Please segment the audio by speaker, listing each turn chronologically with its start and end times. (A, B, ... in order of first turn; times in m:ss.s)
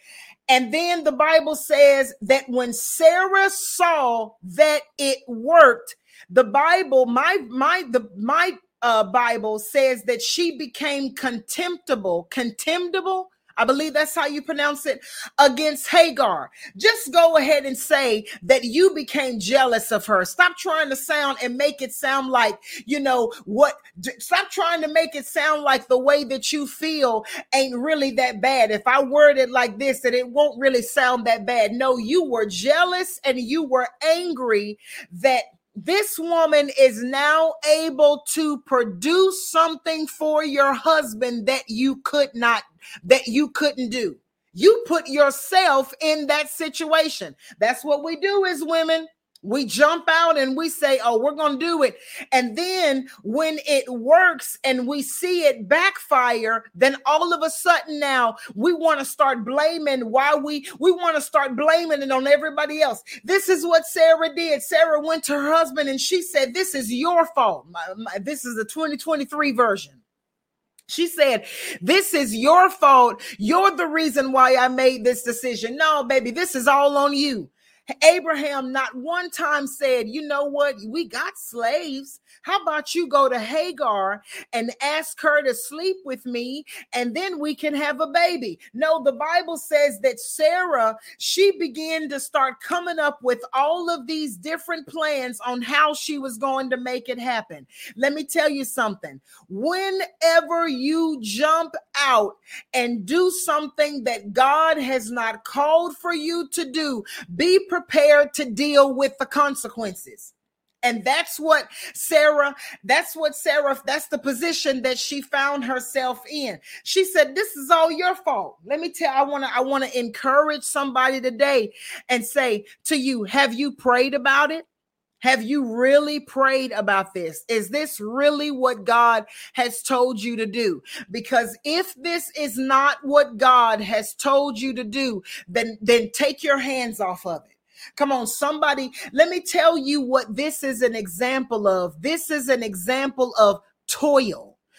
0:00.5-1:10.0 A
1:10.9-2:04.6 A
2:05.2-2:24.6 A